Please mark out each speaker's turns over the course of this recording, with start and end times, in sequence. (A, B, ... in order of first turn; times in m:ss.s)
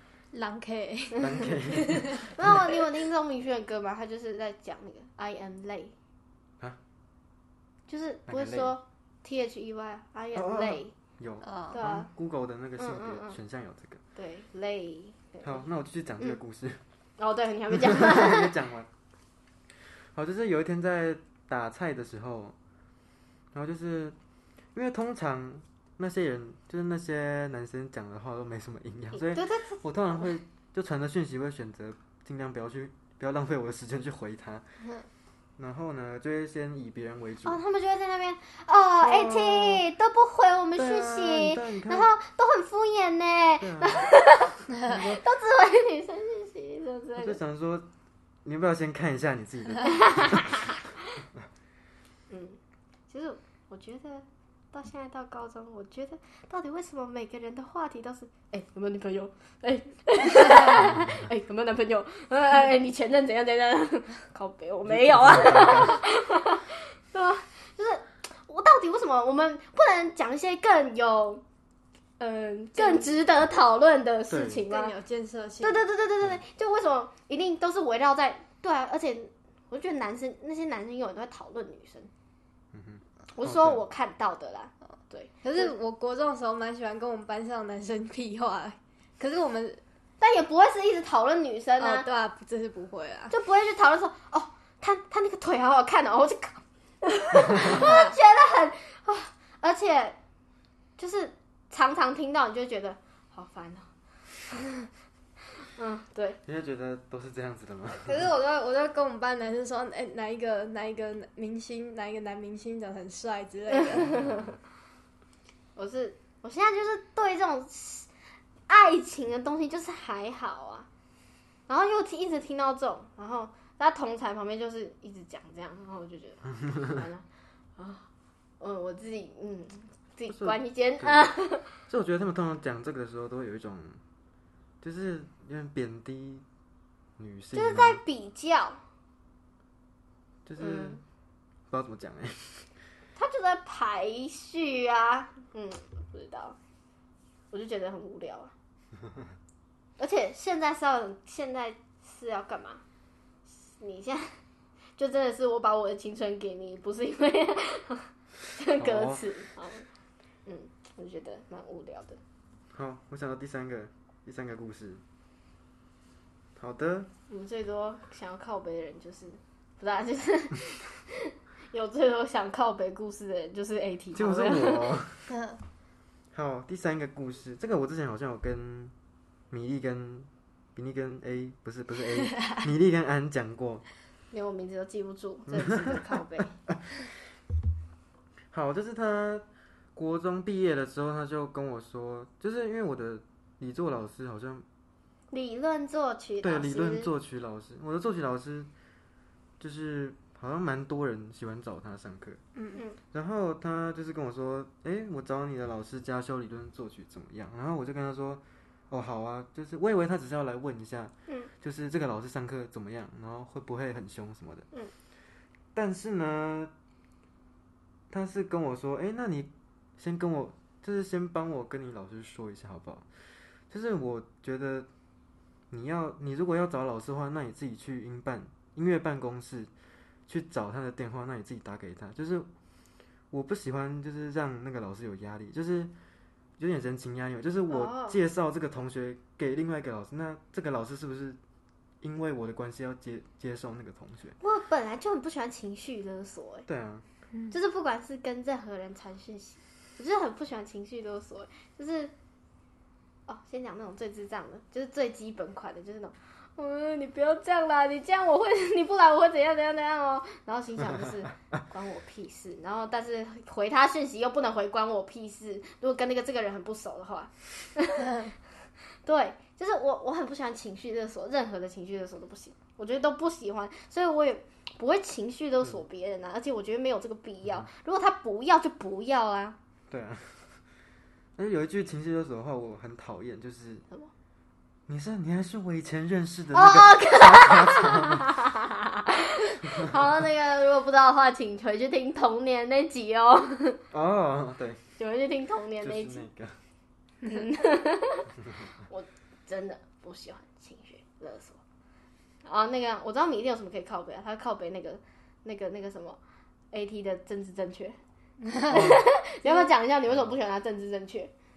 0:00.3-0:02.3 A
0:01.2-0:02.8 B
0:02.2-0:05.9 C
0:07.9-0:10.9 C
0:08.3-0:08.7 B
0:10.3-0:14.0 B
0:11.4-0:11.8 A
0:11.7-0:12.1 C
0:12.8-0:13.4 C
0:14.2-0:15.6 C
0:15.4-0:16.8 B
0:17.2-0:18.5 C
0:17.7-0:18.9 B
0:20.1-0:22.6 B
0:23.5-0:24.2 B
0:24.7-0:34.6 B
0:29.1-0:29.8 C
0:35.6-0:37.6 B
0:37.4-0:47.4 C
0:39.0-0:39.8 B
0:40.8-0:42.1 B
0:43.6-0:44.1 B
0:44.8-0:45.2 B
0:47.2-0:47.9 B
0:48.4-0:50.7 B
0:49.8-0:50.8 C
0:52.3-0:52.6 C
0:53.1-1:11.4 C
1:00.7-1:01.2 B
1:04.8-1:06.0 B
1:12.2-1:14.9 C
1:12.8-1:13.2 A
1:14.3-1:14.6 B
1:14.7-1:15.8 A
1:15.6-1:22.1 C
1:22.7-1:23.8 B
1:23.3-1:25.7 C
1:25.4-1:29.8 A
1:30.2-1:32.1 C
1:31.8-1:33.3 A
1:33.3-1:40.2 C
1:37.7-1:38.1 A
1:41.0-1:43.9 C
1:45.7-1:46.4 C
1:46.4-1:48.3 B
1:48.0-1:54.4 A
1:53.7-1:54.4 C
1:55.8-1:58.1 C
1:58.7-2:00.9 C
2:01.7-2:07.2 C
2:07.8-2:08.1 C
2:08.6-2:11.7 C
2:10.3-2:11.3 B
2:11.9-2:14.0 B
2:14.8-2:16.4 B
2:17.2-2:18.0 B
2:17.5-2:18.8 C
2:20.4-2:21.0 B
2:20.6-2:21.0 C
2:21.7-2:22.7 B
2:23.2-2:26.6 C
2:27.5-2:28.5 C
2:30.0-2:32.8 C
2:33.5-2:34.4 C
2:35.0-2:39.8 C
2:38.8-2:39.2 B
2:40.4-2:42.2 C
2:42.7-2:45.0 B
2:46.6-2:47.1 B
2:47.3-2:55.0 C
2:54.1-2:55.3 B
2:55.3-2:55.6 A
2:56.3-2:58.9 B
2:59.5-3:03.8 B
3:04.3-3:06.5 C
3:05.5-3:06.0 B
3:08.5-3:14.6 B
3:15.3-3:17.1 C
3:16.4-3:18.7 B
3:19.6-3:22.4 B
3:22.6-3:22.8 A
3:23.1-3:34.7 B
3:35.7-3:36.7 B
3:38.1-3:43.0 B
3:43.7-3:44.9 B
3:45.7-3:49.7 B
3:50.3-3:52.5 B
3:53.3-3:55.9 B
3:56.6-4:01.4 B
3:57.7-3:58.2 C
4:02.0-4:04.4 B
4:04.4-4:06.7 C
4:06.7-4:07.0 B
4:07.5-4:12.1 C
4:13.3-4:28.3 C
4:29.0-4:39.6 C
4:39.9-4:40.6 B
4:41.4-4:43.8 B
4:44.9-4:48.3 B
4:46.5-4:53.8 C
4:49.7-4:50.0 B
4:53.9-4:54.8 B
4:55.0-4:56.2 C
4:55.8-4:56.6 B
4:57.2-4:58.3 C
4:58.9-5:01.6 C
5:02.4-5:06.2 C
5:06.7-5:08.0 C
5:08.4-5:09.7 A
5:08.7-5:11.3 C
5:08.7-5:09.0 B
5:10.1-5:10.4 B